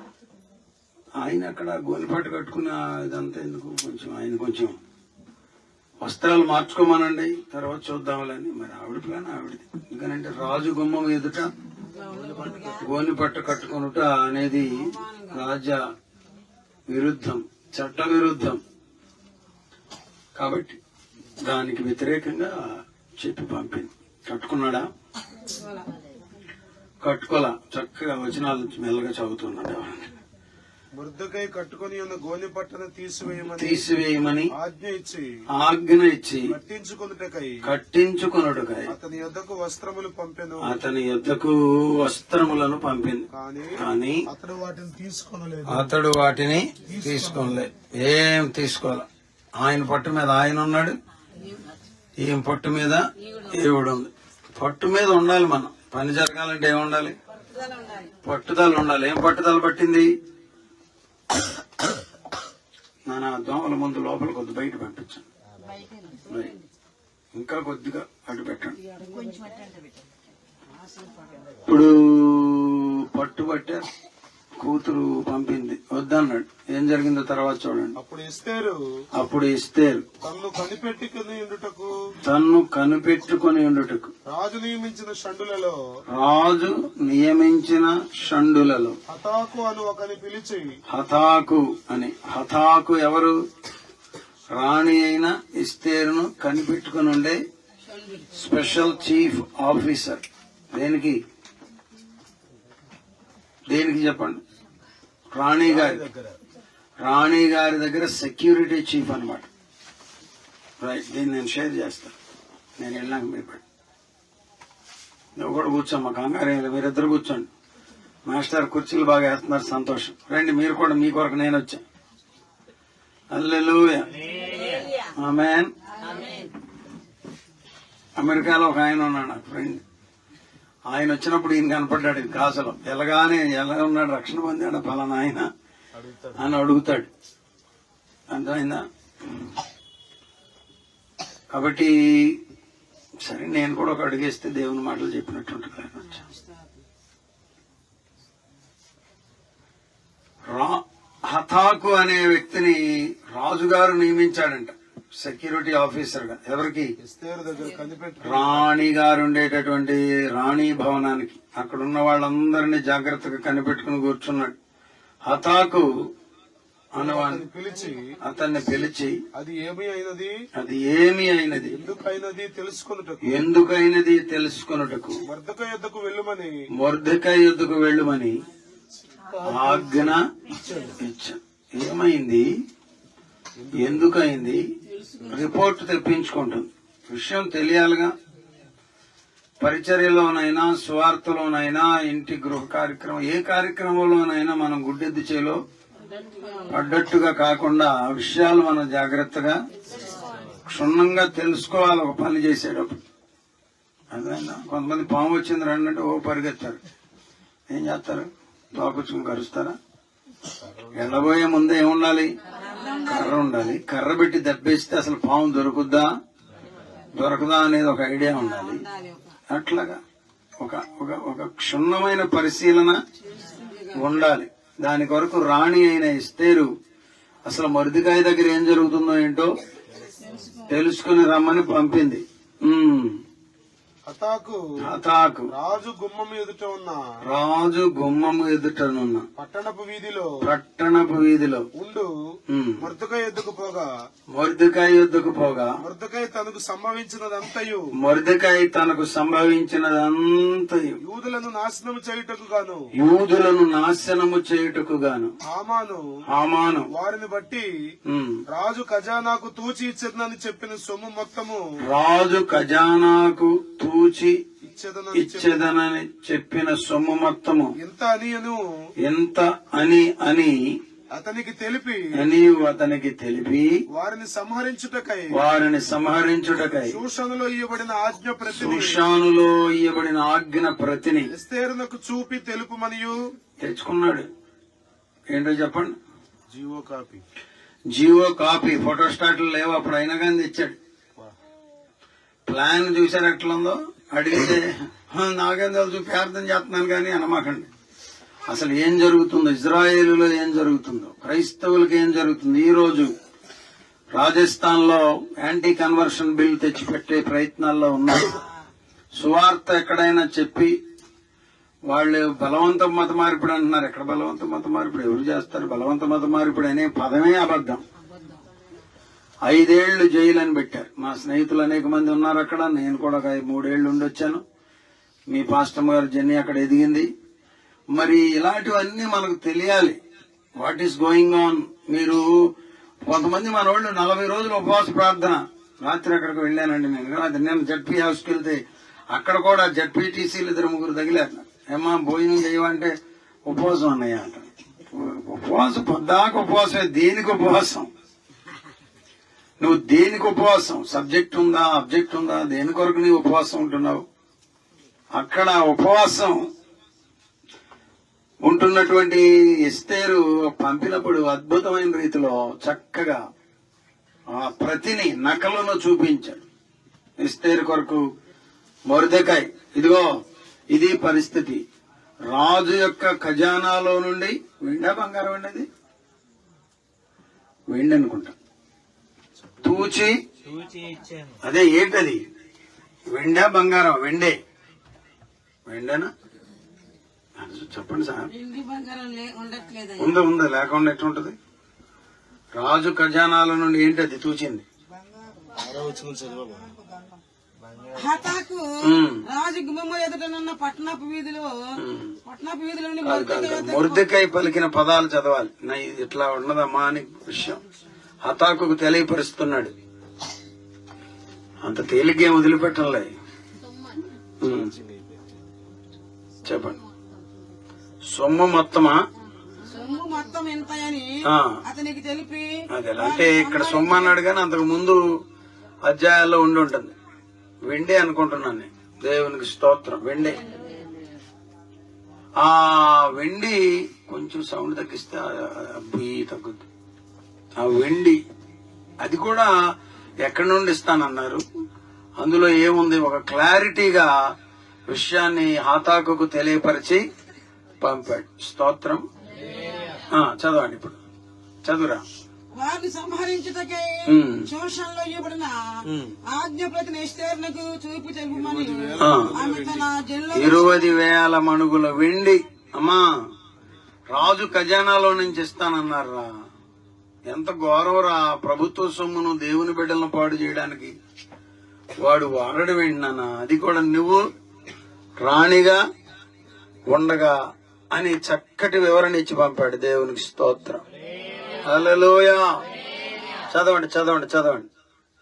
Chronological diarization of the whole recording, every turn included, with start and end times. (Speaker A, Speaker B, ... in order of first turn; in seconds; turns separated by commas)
Speaker A: 1.2-4.8, Speaker A: 6.0-11.5, Speaker B: 11.9-12.9, Speaker A: 12.8-15.8, Speaker B: 14.6-15.4, Speaker A: 16.9-18.6, Speaker A: 20.4-20.8, Speaker A: 21.4-24.9, Speaker B: 25.5-25.9, Speaker A: 27.0-30.1, Speaker C: 31.0-33.8, Speaker A: 33.5-34.5, Speaker C: 34.5-35.3, Speaker A: 35.5-36.5, Speaker C: 36.5-37.6, Speaker A: 37.6-38.9, Speaker C: 38.9-40.8, Speaker A: 40.6-44.2, Speaker C: 43.3-45.9, Speaker A: 45.7-49.1, Speaker C: 46.9-47.6, Speaker A: 49.6-51.0, Speaker A: 52.2-57.2, Speaker B: 53.2-53.6, Speaker B: 57.5-58.1, Speaker A: 58.2-60.1, Speaker A: 63.1-65.2, Speaker B: 65.7-66.6, Speaker A: 67.3-68.8, Speaker B: 68.9-69.8, Speaker B: 70.8-71.5, Speaker A: 71.7-73.9, Speaker A: 74.6-78.0, Speaker C: 78.0-78.8, Speaker A: 79.1-80.0, Speaker C: 80.2-81.9, Speaker A: 82.2-84.1, Speaker C: 84.3-85.8, Speaker A: 86.1-89.0, Speaker C: 89.1-90.7, Speaker A: 90.9-93.4, Speaker A: 94.5-97.4, Speaker A: 98.4-101.2, Speaker A: 103.7-104.4, Speaker A: 105.3-106.1, Speaker C: 105.7-106.3, Speaker A: 107.0-109.5, Speaker A: 110.8-112.2, Speaker A: 112.8-113.6, Speaker A: 115.4-117.5, Speaker A: 118.3-121.8, Speaker A: 123.3-124.1, Speaker A: 125.2-125.7, Speaker A: 128.2-129.8, Speaker A: 130.9-135.5, Speaker C: 136.0-136.4, Speaker A: 136.4-137.1, Speaker A: 138.3-139.6, Speaker A: 141.5-142.4, Speaker A: 143.2-146.2, Speaker A: 150.5-156.9, Speaker C: 157.0-158.7, Speaker A: 158.2-164.6, Speaker A: 165.2-165.9, Speaker A: 166.9-167.4, Speaker C: 167.0-168.1, Speaker A: 168.2-169.2, Speaker C: 169.4-170.3, Speaker A: 170.6-171.8, Speaker C: 171.7-173.4, Speaker A: 173.2-175.2, Speaker C: 175.3-176.5, Speaker A: 176.7-178.4, Speaker C: 179.2-181.0, Speaker A: 179.4-180.3, Speaker A: 181.0-182.5, Speaker C: 183.6-184.0, Speaker A: 183.7-184.7, Speaker B: 185.0-185.3, Speaker A: 185.2-188.2, Speaker A: 189.6-195.6, Speaker B: 196.2-196.7, Speaker A: 196.7-199.6, Speaker A: 200.7-203.0, Speaker A: 204.1-206.8, Speaker A: 207.7-209.8, Speaker C: 210.7-211.0, Speaker A: 210.9-212.3, Speaker B: 212.6-213.4, Speaker A: 213.1-216.1, Speaker A: 217.1-218.8, Speaker B: 218.3-219.4, Speaker A: 219.5-220.0, Speaker A: 220.6-223.0, Speaker B: 223.2-224.0, Speaker A: 224.0-226.7, Speaker A: 227.5-229.6, Speaker B: 230.2-230.8, Speaker A: 230.7-233.2, Speaker C: 234.1-234.6, Speaker A: 234.8-235.5, Speaker C: 235.5-237.0, Speaker A: 237.2-239.3, Speaker C: 239.4-240.3, Speaker A: 240.4-241.7, Speaker C: 241.7-242.1, Speaker A: 242.5-242.9, Speaker C: 242.8-243.9, Speaker A: 244.3-245.8, Speaker C: 245.8-247.9, Speaker A: 247.9-251.0, Speaker C: 251.0-252.8, Speaker A: 253.0-255.3, Speaker C: 255.5-256.1, Speaker A: 256.3-256.9, Speaker C: 256.9-257.7, Speaker A: 258.1-258.4, Speaker C: 258.5-261.6, Speaker A: 261.8-264.4, Speaker C: 264.6-265.7, Speaker A: 265.1-267.8, Speaker C: 267.8-268.7, Speaker A: 269.0-270.8, Speaker C: 271.1-272.1, Speaker A: 272.1-273.8, Speaker C: 273.9-275.4, Speaker A: 275.3-277.0, Speaker C: 276.9-279.0, Speaker A: 278.5-281.3, Speaker C: 281.3-283.4, Speaker A: 283.6-284.3, Speaker A: 285.3-286.0, Speaker C: 286.5-287.2, Speaker A: 287.9-290.8, Speaker A: 292.5-297.7, Speaker A: 298.5-303.1, Speaker A: 304.1-308.4, Speaker A: 309.1-310.8, Speaker A: 311.9-317.8, Speaker A: 319.4-324.4, Speaker A: 325.3-327.1, Speaker A: 327.9-330.0, Speaker A: 330.6-332.5, Speaker A: 333.1-342.9, Speaker A: 343.5-347.9, Speaker A: 349.6-354.1, Speaker A: 355.1-356.4, Speaker A: 358.4-363.2, Speaker A: 364.3-366.4, Speaker A: 367.2-368.1, Speaker A: 368.9-371.6, Speaker A: 372.3-375.7, Speaker A: 377.7-378.4, Speaker A: 379.6-380.2, Speaker C: 380.8-381.3, Speaker A: 381.4-382.2, Speaker A: 383.1-384.4, Speaker A: 385.7-386.1, Speaker A: 387.4-388.3, Speaker B: 388.3-390.2, Speaker A: 390.0-391.4, Speaker A: 392.6-394.6, Speaker C: 395.6-396.7, Speaker B: 397.9-404.1, Speaker A: 398.8-399.2, Speaker A: 401.8-402.1, Speaker A: 403.0-407.6, Speaker A: 408.2-409.7, Speaker A: 411.6-413.1, Speaker A: 414.4-414.7, Speaker C: 414.4-415.1, Speaker A: 416.4-416.8, Speaker A: 418.1-419.0, Speaker B: 419.6-424.2, Speaker A: 421.3-421.6, Speaker A: 422.7-425.0, Speaker A: 425.8-426.9, Speaker A: 427.7-430.4, Speaker A: 432.4-436.7, Speaker A: 437.6-438.2, Speaker A: 439.0-439.5, Speaker A: 440.2-441.4, Speaker A: 442.2-444.1, Speaker A: 444.9-447.1, Speaker A: 447.8-449.1, Speaker A: 450.1-451.0, Speaker A: 451.6-452.1, Speaker B: 452.6-461.0, Speaker A: 454.1-454.5, Speaker A: 455.9-456.2, Speaker C: 458.3-459.9, Speaker A: 459.0-459.4, Speaker A: 460.3-463.1, Speaker A: 464.1-466.4, Speaker A: 467.3-470.9, Speaker A: 472.0-474.3, Speaker A: 475.2-475.8, Speaker A: 476.9-477.4, Speaker A: 477.9-480.8, Speaker A: 481.6-482.5, Speaker A: 483.5-484.7